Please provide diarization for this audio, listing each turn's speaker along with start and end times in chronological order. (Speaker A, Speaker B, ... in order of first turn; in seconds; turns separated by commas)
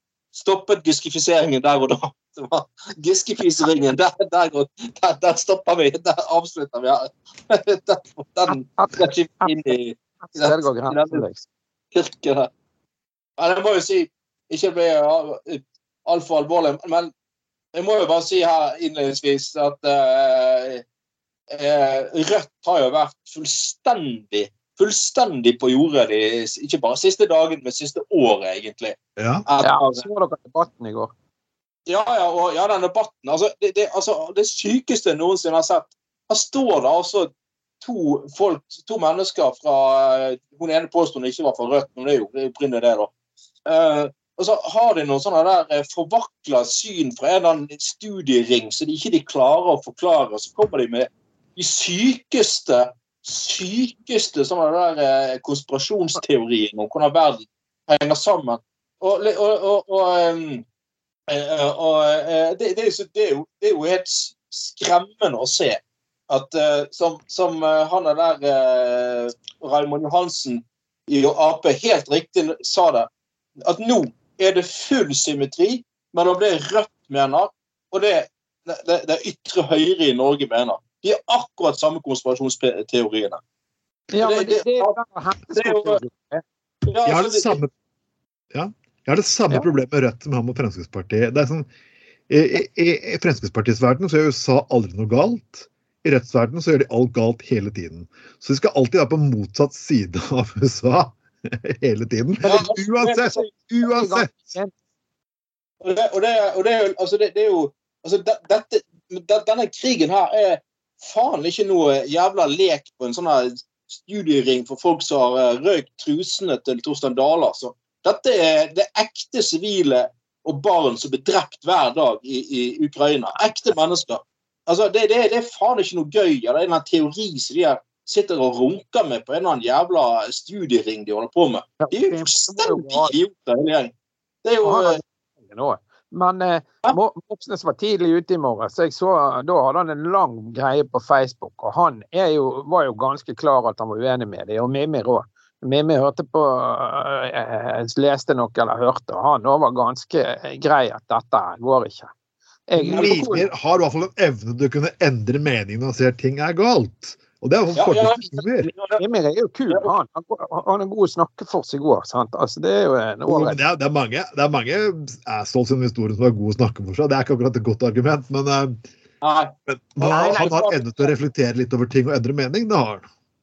Speaker A: 0.3-11.2, Speaker B: 8.5-9.7, Speaker B: 10.2-11.5, Speaker A: 11.9-12.5, Speaker A: 13.4-17.1, Speaker A: 17.7-20.8, Speaker A: 21.5-30.1, Speaker C: 29.2-29.4, Speaker B: 29.6-31.1, Speaker A: 31.9-37.3, Speaker A: 37.8-43.1, Speaker A: 43.7-60.6, Speaker A: 61.3-73.1, Speaker A: 73.6-83.4, Speaker B: 84.1-86.4, Speaker A: 84.2-85.0, Speaker A: 85.5-86.0, Speaker A: 86.9-87.6, Speaker C: 87.1-87.7, Speaker C: 88.5-91.7, Speaker C: 92.3-104.5, Speaker B: 102.4-104.7, Speaker A: 102.5-103.4, Speaker A: 105.8-133.9, Speaker B: 131.8-133.2, Speaker A: 134.4-135.0, Speaker B: 134.6-152.1, Speaker B: 152.7-153.4, Speaker C: 152.8-158.7, Speaker A: 152.9-153.3, Speaker A: 157.8-159.0, Speaker B: 159.0-163.6, Speaker C: 163.3-168.8, Speaker A: 169.2-170.8, Speaker C: 169.7-173.1, Speaker B: 170.0-170.5